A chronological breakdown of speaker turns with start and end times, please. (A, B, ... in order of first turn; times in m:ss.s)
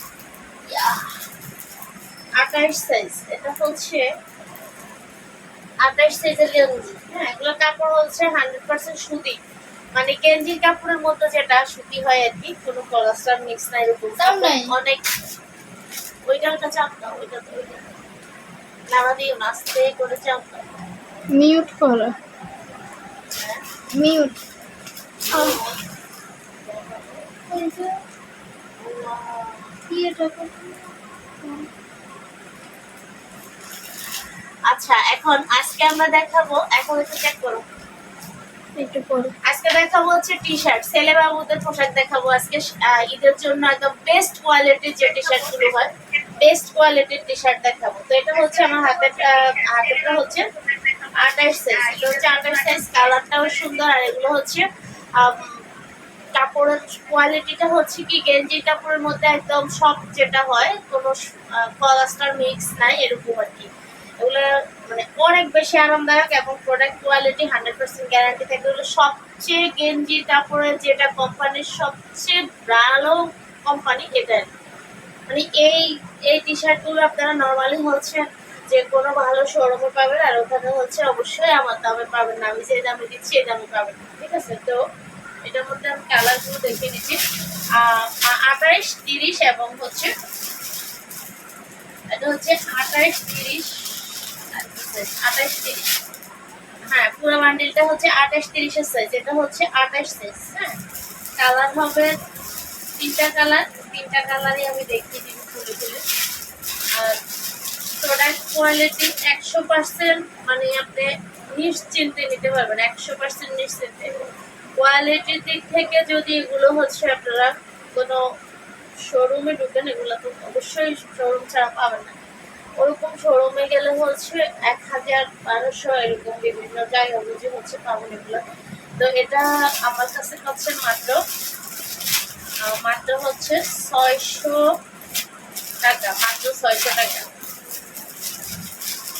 0:00.7-0:01.1 A
0:02.4-0:04.0 A
0:05.8-0:09.4 A
0:10.0-0:15.0 A
0:14.2-0:14.7 B
0:16.3-0:17.9 A
0:18.9-0:20.6 A
0:21.3-0:22.2 B
0:23.3-0:23.6 A
0:23.9-0:24.4 B
0:25.3-0:25.8 A
0:25.3-0:25.6 B
0:26.6-0:27.4 A
0:27.5-0:27.9 B
0:28.8-0:29.7 A
0:29.9-0:31.7 B
0:34.7-0:37.6 A
0:38.8-0:39.3 B
0:39.4-0:50.5 A
0:51.1-0:54.7 A
0:55.2-0:55.6 A
0:56.3-1:14.5 A
1:15.3-1:24.8 A
1:25.4-1:27.2 A
1:27.8-1:30.1 A
1:32.1-1:36.0 A
1:36.9-1:40.8 A
1:41.4-1:42.2 A
1:43.0-1:46.0 A
1:48.0-1:58.2 A
1:59.1-2:02.2 A
2:02.8-2:08.4 A
2:09.0-2:11.2 A
2:12.6-2:14.7 A
2:15.8-2:17.3 A